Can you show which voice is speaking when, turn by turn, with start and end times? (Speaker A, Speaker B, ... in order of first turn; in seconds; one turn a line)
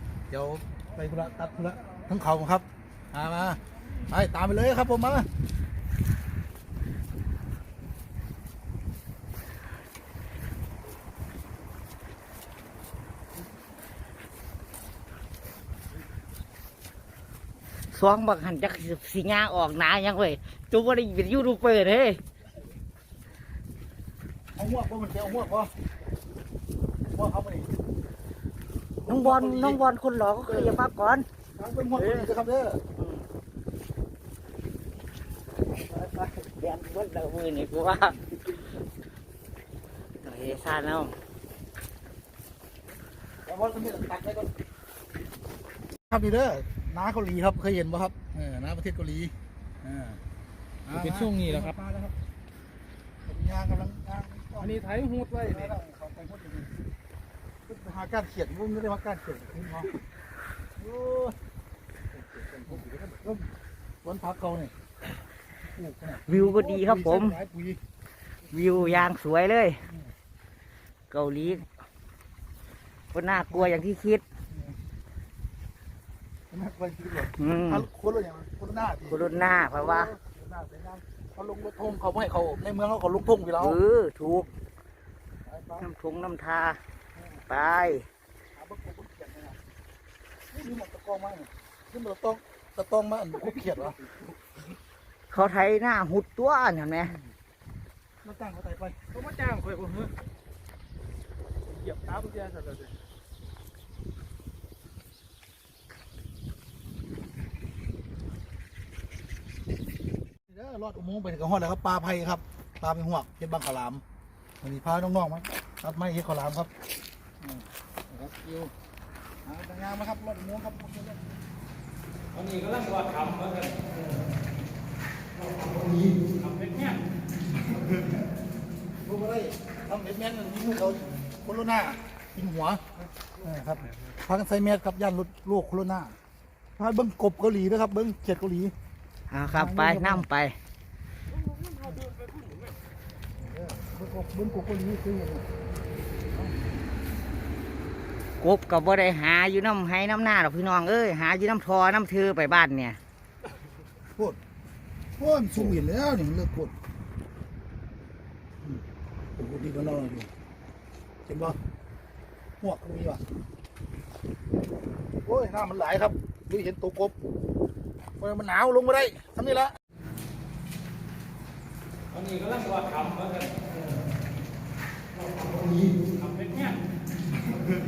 Speaker A: 0.3-5.3
Speaker B: 17.9-22.2
Speaker A: 24.5-25.7
Speaker A: 27.1-27.8
Speaker A: 29.1-29.8
Speaker B: 29.1-31.2
Speaker A: 30.4-30.8
Speaker A: 31.5-32.8
Speaker B: 31.9-32.3
Speaker B: 33.0-33.2
Speaker B: 35.8-38.5
Speaker B: 40.2-41.1
Speaker A: 43.5-44.5
Speaker A: 46.1-50.2
Speaker A: 50.9-52.1
Speaker C: 50.9-51.8
Speaker A: 53.2-54.8
Speaker C: 54.6-55.7
Speaker A: 55.4-56.7
Speaker A: 57.7-60.0
Speaker A: 60.8-61.4
Speaker A: 62.1-63.5
Speaker A: 64.0-64.7
Speaker A: 65.8-67.8
Speaker B: 66.2-67.4
Speaker B: 68.5-69.8
Speaker B: 71.1-71.7
Speaker B: 73.1-74.2
Speaker A: 73.5-73.8
Speaker A: 74.5-74.8
Speaker A: 76.5-83.8
Speaker B: 77.3-77.9
Speaker B: 79.1-80.1
Speaker B: 83.6-84.5
Speaker A: 85.5-85.8
Speaker B: 85.8-86.8
Speaker B: 87.5-88.1
Speaker A: 88.5-89.6
Speaker A: 90.5-94.0
Speaker B: 95.3-97.1
Speaker A: 98.2-99.0
Speaker C: 99.1-100.1
Speaker C: 101.7-102.9
Speaker A: 110.5-114.0
Speaker A: 114.6-116.7
Speaker A: 117.4-118.7
Speaker A: 119.4-121.3
Speaker C: 122.3-123.8
Speaker C: 126.4-127.0
Speaker A: 129.0-132.9
Speaker A: 133.4-136.2
Speaker A: 136.8-138.7
Speaker B: 139.3-140.6
Speaker A: 139.5-140.2
Speaker A: 143.4-145.4
Speaker B: 148.4-153.0
Speaker A: 155.2-156.7
Speaker A: 159.3-160.3
Speaker A: 161.3-161.6
Speaker A: 162.6-163.2
Speaker A: 165.2-167.1
Speaker A: 168.2-169.7
Speaker C: 172.1-173.6
Speaker C: 176.1-176.7